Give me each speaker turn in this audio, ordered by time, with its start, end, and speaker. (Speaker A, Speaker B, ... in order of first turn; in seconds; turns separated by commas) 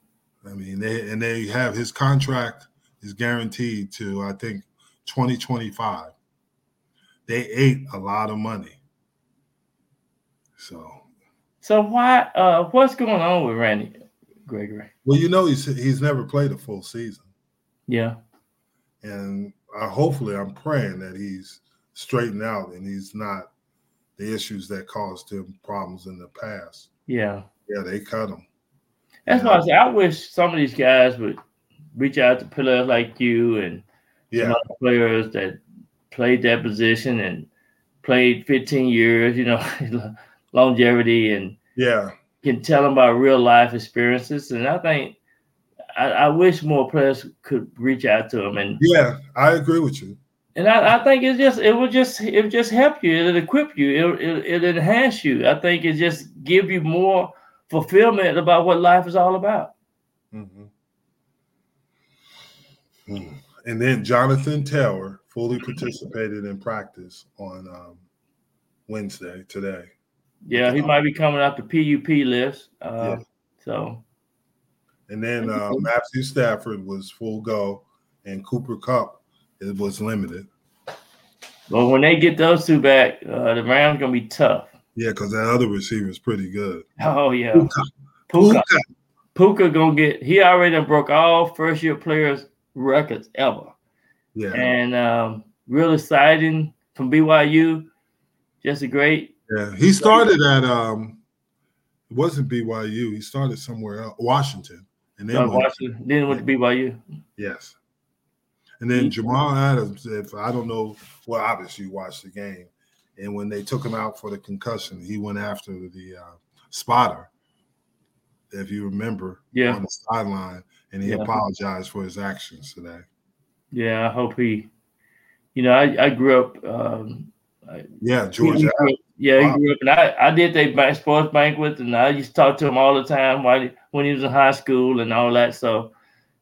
Speaker A: 0.4-6.1, Speaker A: 7.3-8.8, Speaker A: 10.6-11.0, Speaker B: 11.6-14.9, Speaker A: 15.0-17.3, Speaker B: 17.9-18.1, Speaker A: 19.0-23.5, Speaker A: 24.2-26.9, Speaker B: 27.1-27.4, Speaker A: 27.7-28.4, Speaker B: 29.2-31.4, Speaker A: 29.3-29.6, Speaker B: 31.9-33.8, Speaker A: 34.3-34.6, Speaker B: 34.4-37.5, Speaker B: 38.0-41.6, Speaker A: 41.8-42.1, Speaker B: 42.4-45.1, Speaker B: 46.0-48.8, Speaker A: 48.8-50.2, Speaker B: 50.5-59.7, Speaker A: 60.3-60.7, Speaker A: 63.1-68.0, Speaker A: 68.9-69.9, Speaker B: 70.4-74.0, Speaker A: 70.5-70.9, Speaker A: 75.1-80.5, Speaker B: 75.4-75.8, Speaker B: 81.7-84.7, Speaker A: 84.9-86.8, Speaker B: 87.0-87.7, Speaker A: 87.5-88.8, Speaker B: 88.3-88.7, Speaker B: 89.3-93.7, Speaker A: 94.3-94.7, Speaker B: 94.5-97.9, Speaker B: 98.6-99.3, Speaker A: 99.5-101.2, Speaker B: 100.0-100.3, Speaker A: 102.1-106.4, Speaker B: 105.3-107.0, Speaker A: 107.4-107.8, Speaker A: 108.8-117.3, Speaker A: 118.5-123.0, Speaker B: 119.5-119.8, Speaker B: 121.0-121.3, Speaker B: 123.7-124.7, Speaker B: 125.5-127.8, Speaker A: 128.0-129.6, Speaker B: 128.4-135.9